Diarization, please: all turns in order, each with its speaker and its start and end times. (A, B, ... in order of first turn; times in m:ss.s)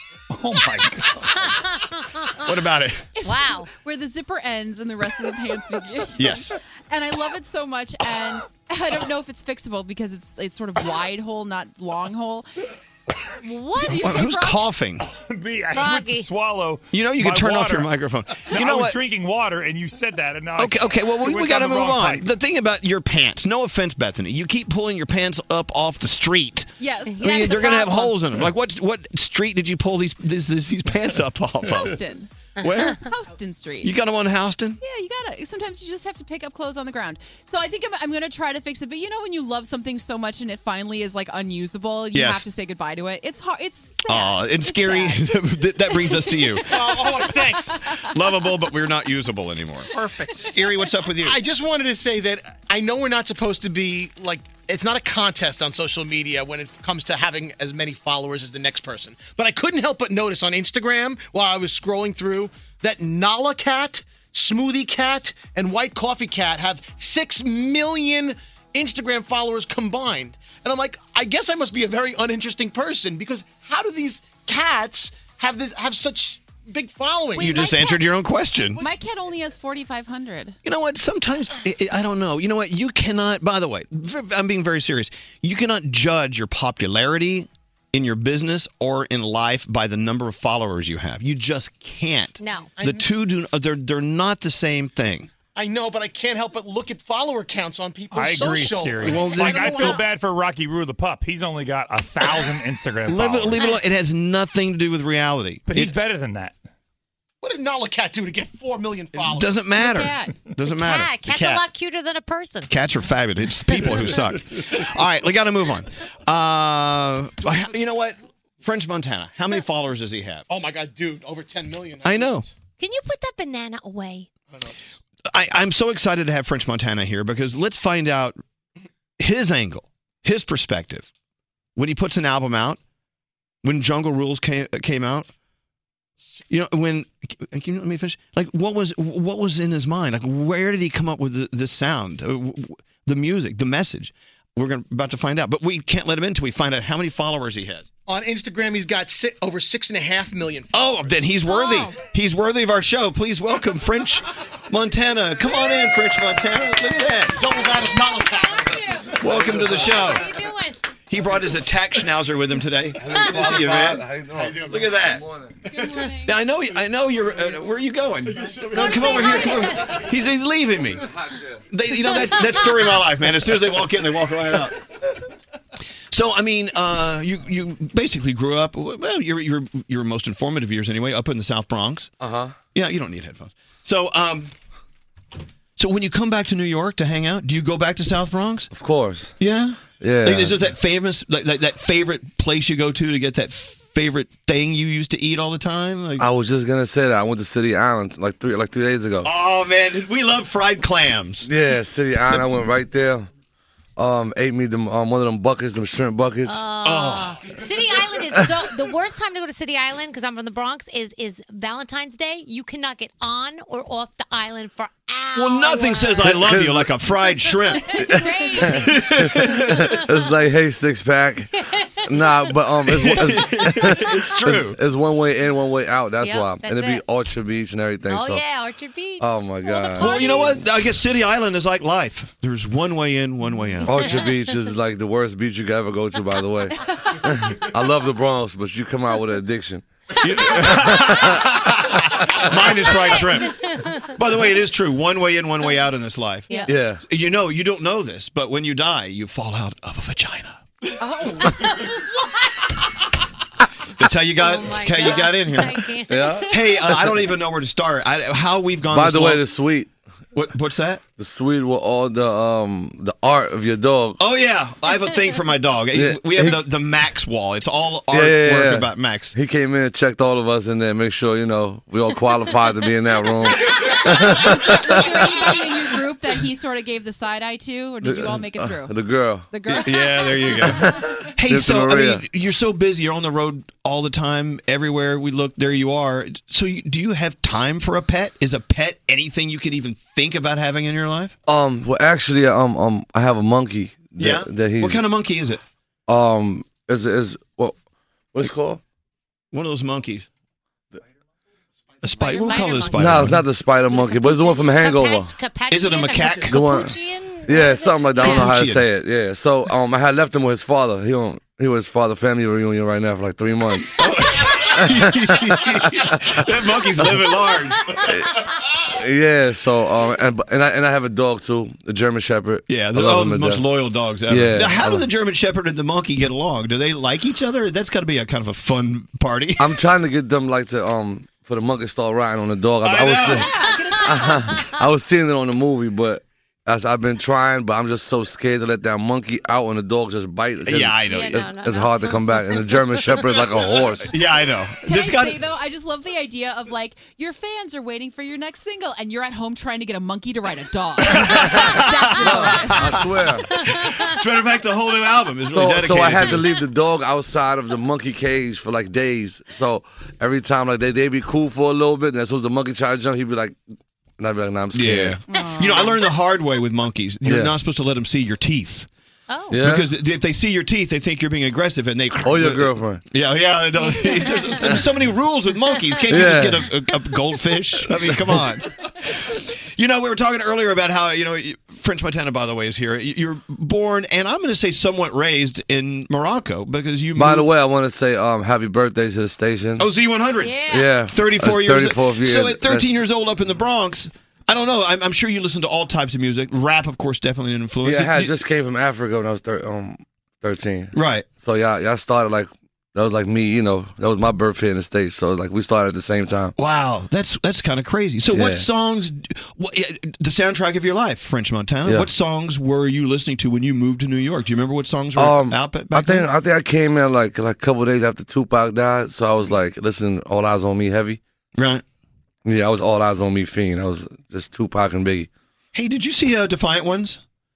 0:00.3-0:01.7 A
0:01.4-0:02.4 B
0:02.4-0:03.1 C
0:03.2-0:12.5 D
0:03.2-0:03.7 B
0:06.2-0:06.5 C
0:13.4-0:14.7 D
0:13.8-0:15.0 C
0:15.0-0:17.9 A
0:15.7-0:16.3 B
0:16.9-0:19.0 C
0:18.4-0:22.3 A
0:20.6-0:32.0 C
0:26.8-0:28.2 D
0:31.7-0:32.3 D
0:32.6-0:33.0 C
0:32.8-0:33.9 D
0:33.8-0:34.8 C
0:34.8-0:45.2 D
0:42.1-0:42.5 C
0:44.1-0:46.7 C
0:45.9-0:48.0 D
0:46.7-0:47.8 E
0:48.0-0:51.4 C
0:49.9-0:50.5 E
0:51.2-1:17.5 E
1:17.4-1:18.0 B
1:17.4-1:18.8 C
1:18.8-1:20.6 D
1:20.6-1:35.3 C
1:32.4-1:32.7 B
1:32.8-1:33.0 E
1:35.5-1:40.1 E
1:38.1-1:43.7 A
1:39.0-1:40.0 C
1:43.0-1:46.0 C
1:45.7-1:46.6 A
1:47.4-1:49.6 E
1:49.2-1:51.6 C
1:49.8-1:50.4 D
1:50.8-1:52.7 B
1:52.7-2:00.4 C
2:00.5-2:02.4 E
2:02.0-2:02.4 C
2:02.8-2:04.3 B
2:04.5-2:04.8 E
2:05.3-2:08.4 C
2:09.2-2:11.1 C
2:11.8-2:12.8 C
2:13.6-2:15.3 C
2:16.5-2:27.9 C
2:28.1-2:30.7 E
2:30.7-2:37.5 C
2:31.4-2:32.0 B
2:37.3-2:38.7 E
2:37.6-2:40.9 B
2:39.2-2:40.3 C
2:39.3-2:39.9 F
2:41.1-2:45.2 C
2:43.0-2:45.5 F
2:44.4-2:44.8 E
2:45.6-2:46.4 D
2:46.2-2:51.1 C
2:48.2-2:49.5 E
2:48.8-2:50.0 B
2:51.1-2:51.6 F
2:51.7-2:54.8 C
2:56.1-3:02.1 C
3:02.2-3:02.5 F
3:02.7-3:04.5 C
3:05.8-3:08.7 C
3:08.7-3:09.3 F
3:09.4-3:16.2 C
3:09.9-3:10.6 F
3:16.2-3:19.3 F
3:19.2-3:21.5 C
3:21.4-3:23.3 F
3:22.3-3:22.5 C
3:24.0-3:26.6 F
3:26.4-3:36.4 B
3:26.8-3:27.4 C
3:35.3-3:38.0 C
3:36.2-3:36.9 F
3:37.5-3:40.1 B
3:38.0-3:41.5 F
3:38.7-3:39.9 C
3:42.0-3:48.4 F
3:42.8-3:44.8 C
3:43.4-3:44.1 B
3:46.2-3:47.0 B
3:48.1-3:50.7 B
3:49.2-3:50.2 F
3:50.0-3:54.2 C
3:53.8-3:54.5 B
3:53.8-3:59.8 F
4:00.2-4:10.6 C
4:00.4-4:01.4 F
4:06.7-4:07.0 F
4:11.0-4:11.8 D
4:14.0-4:15.9 C
4:14.4-4:16.5 B
4:16.1-4:17.0 F
4:16.4-4:19.4 C
4:18.9-4:19.9 F
4:20.3-4:21.0 C
4:21.2-4:24.2 F
4:24.2-4:29.4 C
4:25.9-4:26.6 F
4:28.1-4:35.5 F
4:33.9-4:38.9 D
4:38.0-4:39.5 F
4:39.5-4:41.0 D
4:39.7-4:51.4 C
4:41.5-4:42.2 F
4:51.5-4:55.0 F
4:54.2-4:55.6 C
4:56.1-4:57.8 F
4:58.3-4:58.8 F
4:59.5-5:00.3 C
5:02.0-5:03.5 C
5:02.2-5:08.5 B
5:03.0-5:05.3 F
5:05.7-5:06.7 C
5:06.5-5:06.9 F
5:07.4-5:14.0 F
5:08.2-5:08.8 C
5:14.0-5:18.1 C
5:14.7-5:16.2 F
5:18.8-5:23.6 F
5:22.7-5:29.7 C
5:24.3-5:25.0 F
5:29.6-5:33.5 F
5:32.8-5:33.5 C
5:33.4-5:34.7 B
5:33.4-5:34.6 D
5:34.0-5:44.2 F
5:40.6-5:41.5 C
5:41.1-5:43.3 B
5:44.1-5:45.4 C
5:44.8-5:53.3 D
5:51.0-5:53.0 C
5:52.2-5:53.5 F
5:53.5-5:54.2 B
5:53.5-5:56.5 C
5:55.5-6:03.6 F
5:56.2-5:56.5 B
6:04.2-6:05.2 F
6:04.7-6:08.9 C
6:05.3-6:06.0 D
6:07.2-6:07.5 F
6:09.3-6:09.6 B
6:09.5-6:09.9 F
6:09.6-6:27.5 C
6:12.2-6:13.0 F
6:13.8-6:14.8 B
6:15.6-6:16.3 B
6:16.1-6:16.7 F
6:27.2-6:29.9 F
6:29.8-6:38.4 C
6:30.4-6:30.9 B
6:30.7-6:32.9 F
6:37.8-6:46.5 F
6:40.9-6:41.3 C
6:46.6-6:56.3 C
6:48.3-6:48.7 F
6:55.2-7:01.2 F
7:01.6-7:01.8 C
7:02.4-7:05.3 F
7:05.7-7:07.2 C